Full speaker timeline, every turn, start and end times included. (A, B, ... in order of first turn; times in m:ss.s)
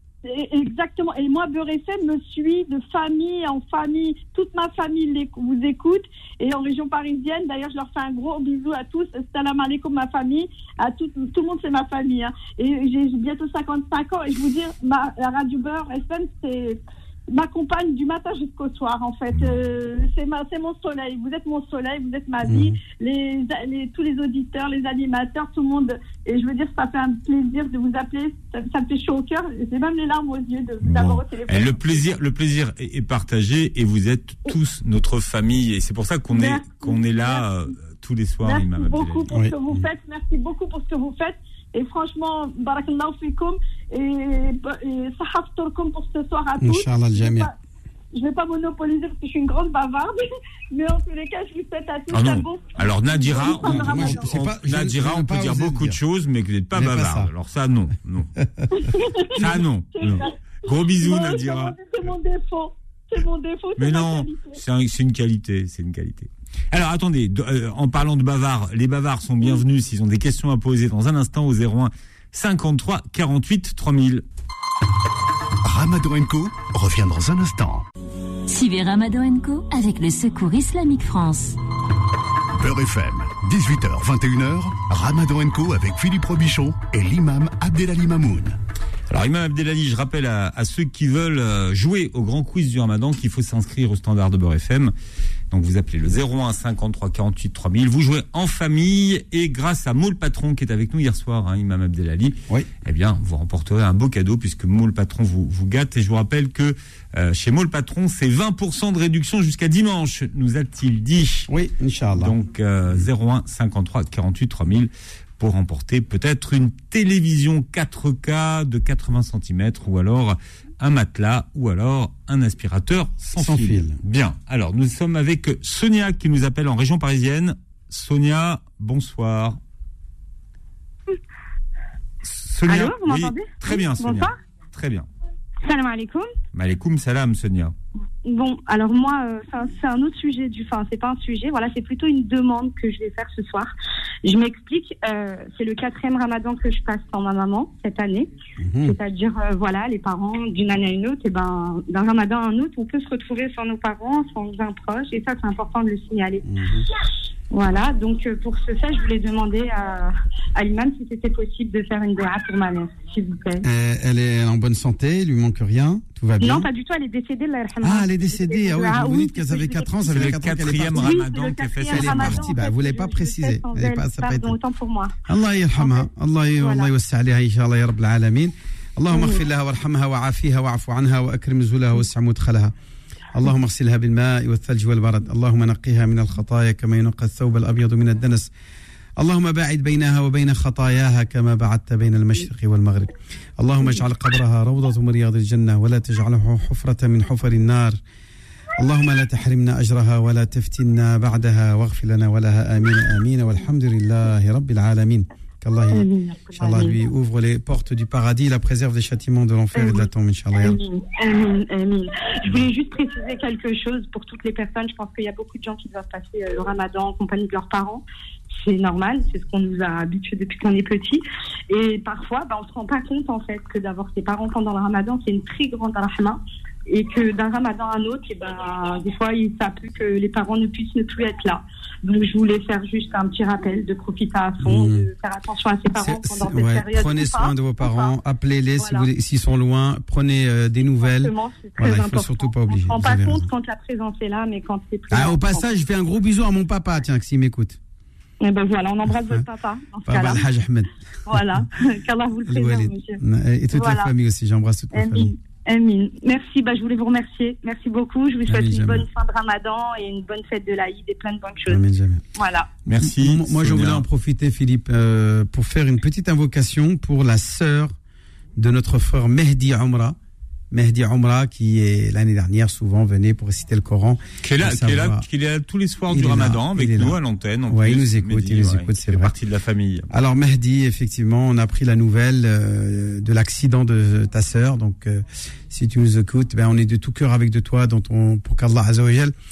0:00.4-0:14.5 A
0:03.5-0:10.4 B
0:12.1-0:16.8 B
0:15.0-0:16.3 A
0:17.3-0:19.4 B
0:17.5-0:25.7 A
0:21.1-0:32.0 B
0:22.4-0:22.8 C
0:26.3-0:28.4 A
0:29.1-0:31.6 A
0:30.8-0:39.3 D
0:36.5-0:37.4 B
0:38.5-0:47.4 A
0:38.5-0:41.2 B
0:39.3-0:39.8 C
0:41.7-0:42.0 B
0:45.4-0:46.3 B
0:46.6-0:47.5 C
0:48.2-0:50.1 B
0:48.2-0:49.9 A
0:50.7-0:54.1 A
0:50.9-0:51.7 B
0:52.1-0:58.3 D
0:53.4-0:56.0 C
0:56.8-0:57.3 C
0:59.4-1:01.8 D
1:01.0-1:04.5 A
1:03.8-1:14.2 D
1:15.6-1:17.9 E
1:18.5-1:21.6 F
1:22.5-1:28.6 E
1:29.1-1:34.9 D
1:35.5-1:51.5 D
1:51.5-1:52.3 C
1:52.2-2:09.6 D
2:03.4-2:04.0 C
2:12.2-2:15.1 D
2:12.6-2:14.4 B
2:15.6-2:16.3 B
2:16.5-2:17.7 D
2:18.2-2:23.7 B
2:24.2-2:28.3 B
2:28.6-2:29.0 C
2:28.8-2:36.4 B
2:36.5-2:36.9 C
2:37.5-2:43.6 B
2:43.6-2:46.7 C
2:46.4-2:50.3 B
2:47.8-2:51.2 C
2:50.1-2:52.5 D
2:50.9-2:55.2 B
2:51.9-2:54.6 C
2:55.3-3:02.7 C
2:55.8-2:56.9 B
2:59.1-2:59.4 B
3:03.3-3:08.5 C
3:09.2-3:18.0 C
3:18.8-3:30.8 C
3:25.9-3:27.0 B
3:29.7-3:58.2 B
3:54.6-3:55.1 C
3:56.0-4:03.4 C
3:58.8-3:59.1 B
4:01.0-4:05.7 B
4:05.1-4:07.8 C
4:08.4-4:10.5 B
4:10.1-4:11.4 C
4:11.3-4:13.2 B
4:12.5-4:15.3 C
4:13.7-4:14.1 B
4:14.9-4:21.8 B
4:18.5-4:19.0 C
4:21.7-4:22.2 C
4:22.4-4:22.7 B
4:22.9-4:24.0 D
4:23.0-4:28.0 C
4:28.6-4:30.2 C
4:30.7-4:35.2 C
4:34.4-4:40.1 D
4:36.1-4:39.3 C
4:40.1-4:49.3 C